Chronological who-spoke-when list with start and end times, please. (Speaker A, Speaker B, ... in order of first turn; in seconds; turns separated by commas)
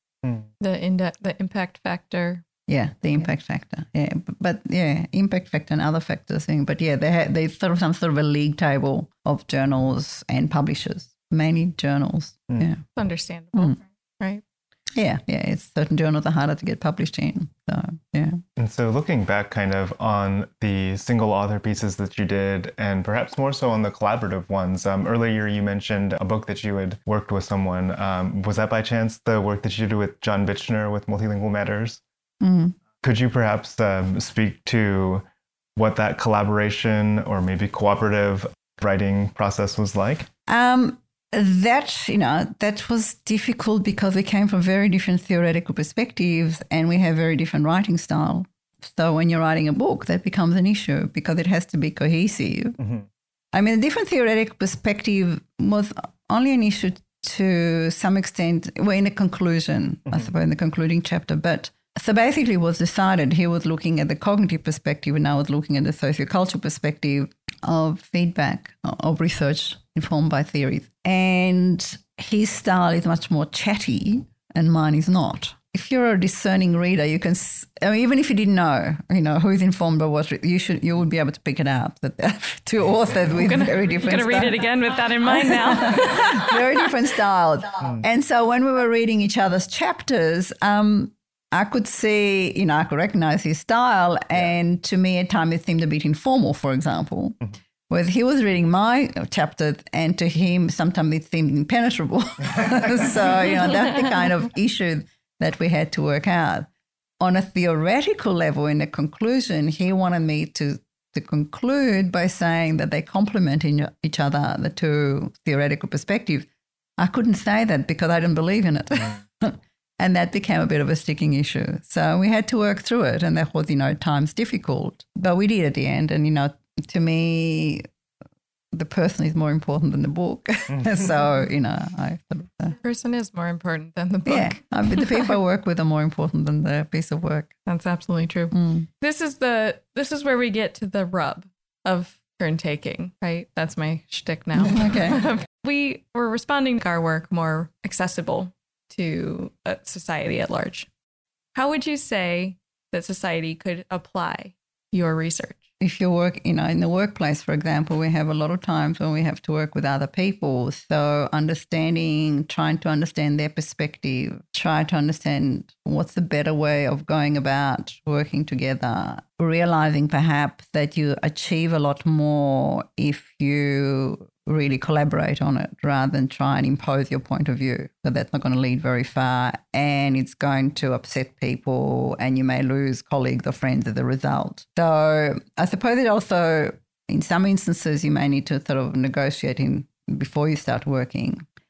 Speaker A: 0.6-2.4, Speaker B: 2.7-12.8, Speaker A: 13.0-14.4, Speaker B: 14.9-18.4, Speaker C: 18.6-32.0, Speaker B: 32.4-32.8, Speaker C: 33.0-35.2, Speaker C: 35.8-40.3, Speaker B: 40.5-52.8, Speaker B: 53.5-97.4, Speaker A: 83.4-86.6, Speaker B: 97.9-106.7, Speaker B: 107.2-116.5, Speaker B: 117.0-127.8, Speaker B: 128.7-132.8, Speaker A: 132.8-135.2, Speaker B: 134.2-137.5, Speaker A: 137.7-150.9, Speaker B: 138.5-138.9, Speaker B: 144.6-145.3, Speaker A: 151.5-155.6, Speaker B: 155.8-191.4